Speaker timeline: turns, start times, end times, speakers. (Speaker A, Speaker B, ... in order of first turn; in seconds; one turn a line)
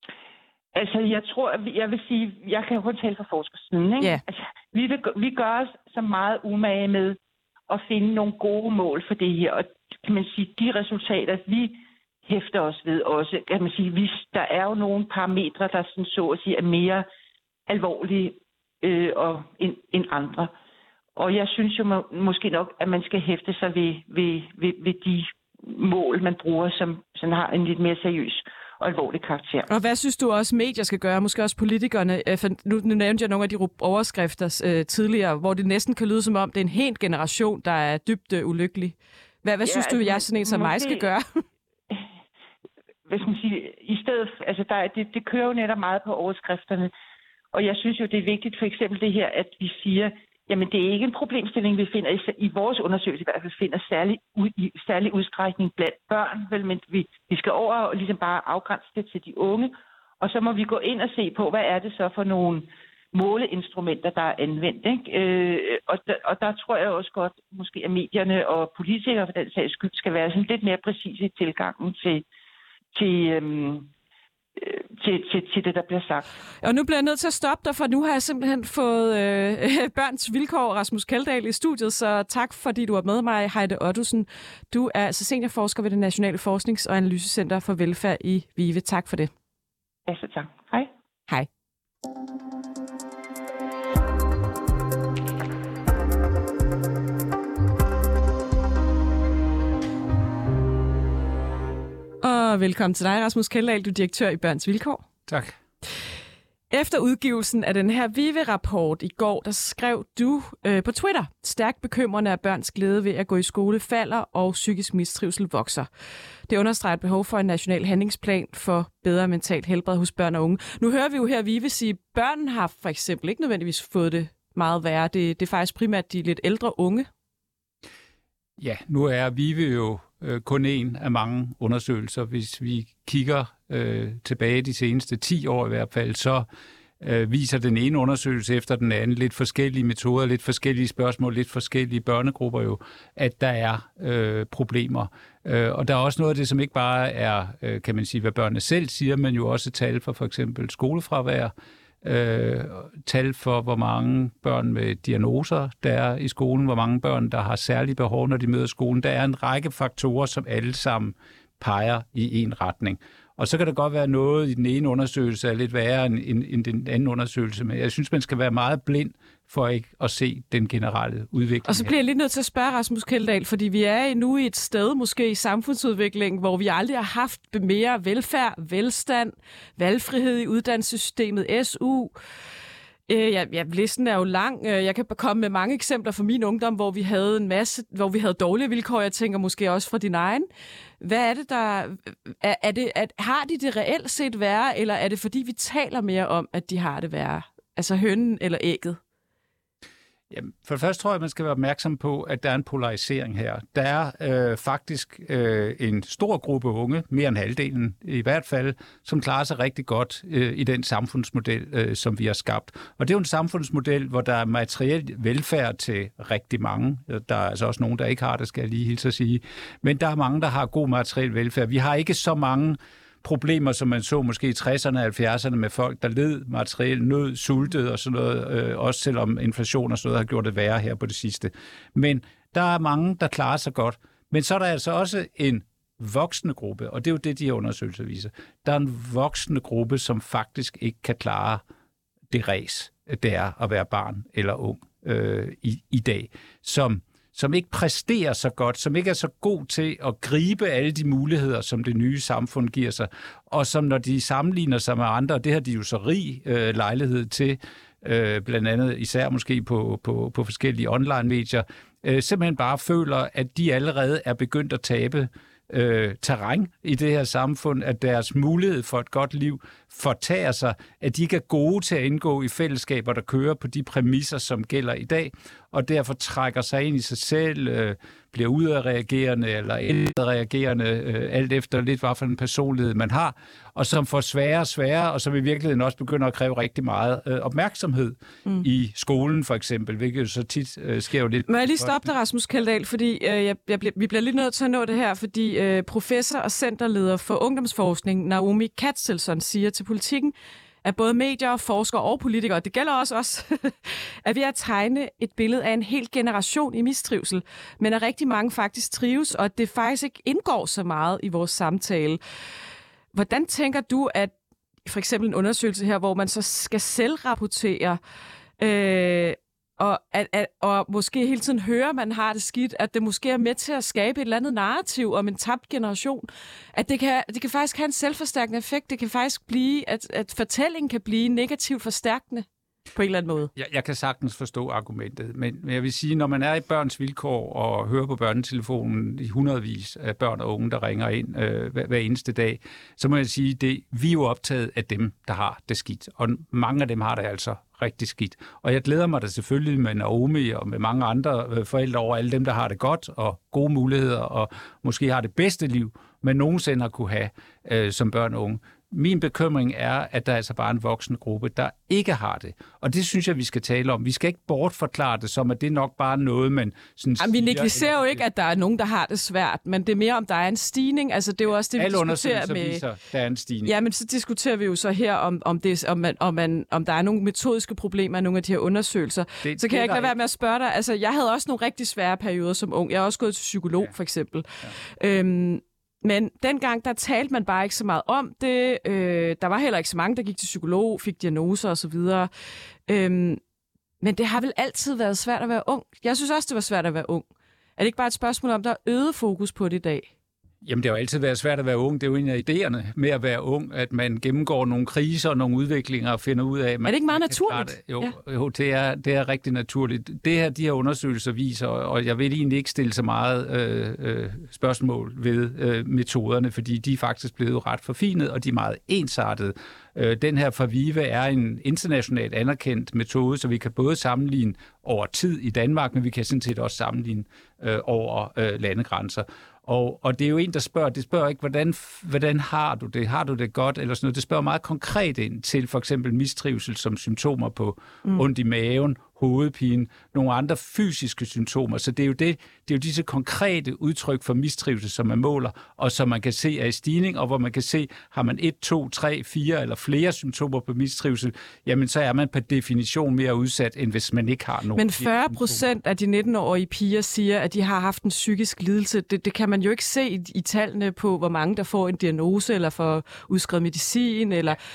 Speaker A: 0.7-17.1
Speaker A: 17.7-20.5
Speaker A: 21.2-29.7
Speaker B: 29.7-41.2
Speaker A: 39.6-41.1
Speaker A: 43.1-46.9
Speaker A: 47.5-72.2
Speaker A: 72.9-73.9
Speaker A: 74.6-76.3
Speaker B: 76.6-89.3
Speaker A: 90.1-90.9
Speaker B: 102.2-105.0
Speaker C: 105.3-105.6
Speaker B: 106.7-115.9
Speaker B: 116.5-127.1
Speaker C: 128.6-136.5
Speaker C: 137.0-151.5
Speaker C: 152.0-171.9
Speaker B: 171.7-182.1
Speaker B: 183.1-190.5
Speaker B: 191.0-199.0
Speaker C: 200.3-241.6
Speaker C: 242.3-292.1
Speaker B: 291.5-312.2
Speaker B: 313.1-314.3
Speaker B: 314.9-318.0
Speaker B: 318.6-333.5
Speaker C: 333.6-368.2
Speaker B: 367.2-372.8
Speaker C: 371.8-373.7
Speaker B: 373.6-392.3
Speaker C: 379.4-380.1
Speaker B: 392.9-393.4
Speaker B: 394.0-397.3
Speaker B: 397.8-400.1
Speaker C: 400.6-455.6
Speaker B: 406.9-408.1
Speaker B: 454.8-464.6